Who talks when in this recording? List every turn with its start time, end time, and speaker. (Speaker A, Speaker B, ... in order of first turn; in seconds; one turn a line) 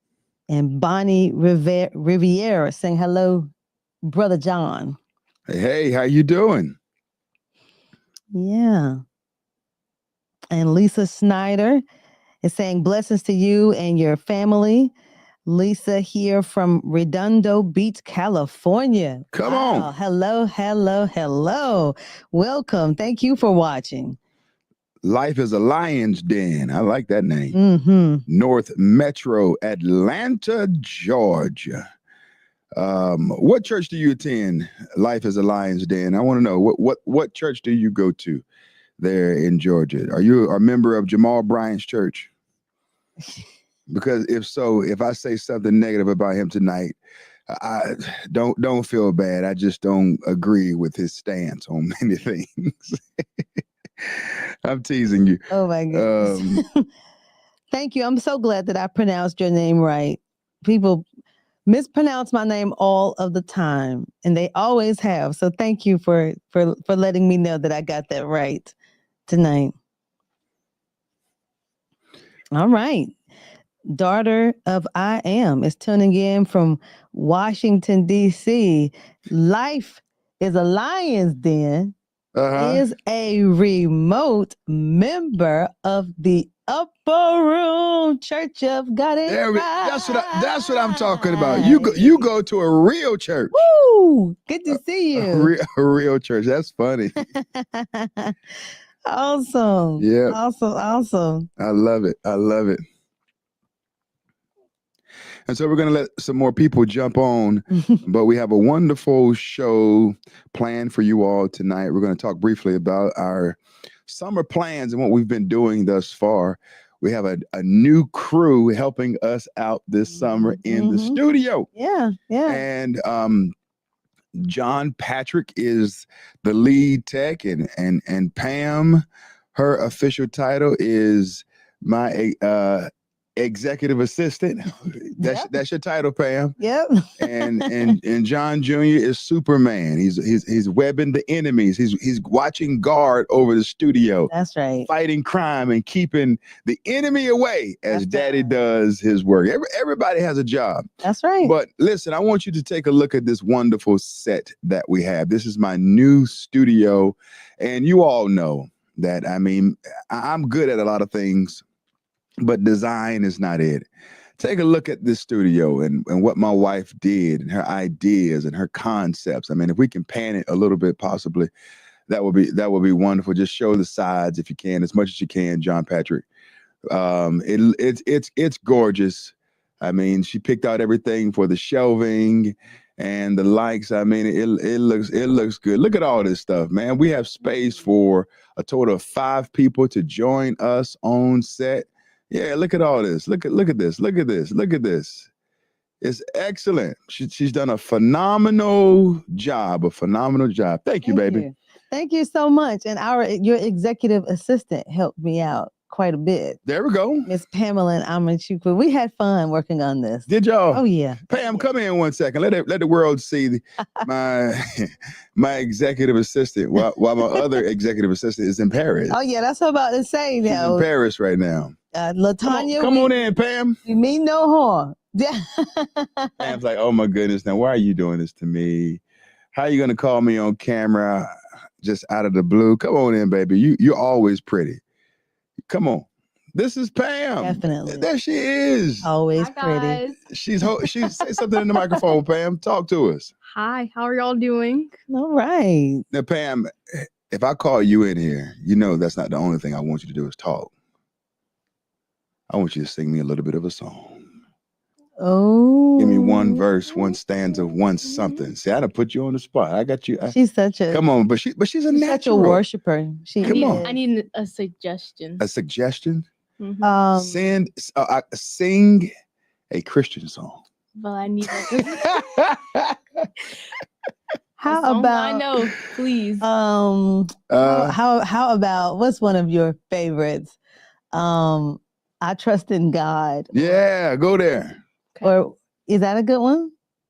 Speaker A: 0.5-3.5
Speaker A: 4.0-5.0
Speaker B: 5.5-6.8
Speaker A: 8.3-9.0
Speaker A: 10.5-11.8
Speaker A: 12.4-14.9
Speaker A: 15.5-24.2
Speaker B: 19.3-19.9
Speaker B: 25.0-27.6
Speaker A: 27.5-28.2
Speaker B: 28.3-31.8
Speaker B: 32.8-38.4
Speaker B: 39.0-42.3
Speaker B: 43.9-47.0
Speaker B: 47.5-53.4
Speaker B: 54.0-56.6
Speaker A: 55.5-56.8
Speaker A: 57.7-61.0
Speaker A: 61.7-68.7
Speaker A: 69.3-69.7
Speaker A: 72.5-73.1
Speaker A: 73.9-81.9
Speaker B: 82.3-82.8
Speaker A: 82.6-92.2
Speaker B: 89.3-93.6
Speaker A: 93.5-95.5
Speaker B: 95.1-97.2
Speaker A: 97.2-98.3
Speaker A: 99.1-101.5
Speaker B: 100.0-100.4
Speaker B: 101.6-102.8
Speaker B: 105.5-121.7
Speaker A: 120.2-121.2
Speaker A: 121.8-122.6
Speaker B: 122.5-123.5
Speaker B: 124.4-129.0
Speaker B: 129.5-136.6
Speaker A: 135.2-135.5
Speaker A: 136.6-137.9
Speaker B: 137.2-144.3
Speaker A: 144.3-144.9
Speaker B: 144.9-150.8
Speaker A: 147.9-148.5
Speaker A: 151.0-151.5
Speaker B: 151.4-161.6
Speaker B: 162.4-163.9
Speaker B: 164.4-171.5
Speaker B: 172.1-176.2
Speaker B: 176.9-195.3
Speaker B: 196.0-201.4
Speaker A: 201.0-206.6
Speaker B: 206.7-207.3
Speaker A: 207.2-211.7
Speaker B: 210.3-219.2
Speaker A: 219.1-220.8
Speaker B: 220.5-221.7
Speaker A: 221.9-223.1
Speaker B: 222.4-223.8
Speaker A: 223.8-226.6
Speaker B: 226.4-229.0
Speaker B: 229.5-231.3
Speaker B: 231.8-234.8
Speaker B: 235.7-239.1
Speaker A: 237.4-238.1
Speaker A: 239.0-240.0
Speaker C: 239.3-240.2
Speaker B: 240.3-243.3
Speaker C: 243.5-244.9
Speaker A: 245.1-246.0
Speaker B: 246.1-250.7
Speaker B: 252.5-254.2
Speaker A: 255.2-256.6
Speaker B: 256.0-260.4
Speaker C: 258.1-258.4
Speaker A: 260.3-261.0
Speaker B: 260.9-262.6
Speaker A: 261.9-263.9
Speaker B: 263.4-263.9
Speaker C: 263.4-265.4
Speaker B: 265.4-266.3
Speaker C: 266.6-267.0
Speaker A: 266.8-267.6
Speaker B: 267.2-269.1
Speaker B: 269.7-270.6
Speaker C: 271.0-272.2
Speaker B: 271.7-273.3
Speaker A: 274.6-275.5
Speaker C: 274.6-276.5
Speaker A: 276.4-280.6
Speaker B: 277.5-277.9
Speaker A: 281.1-283.8
Speaker B: 283.5-284.8
Speaker A: 285.2-286.7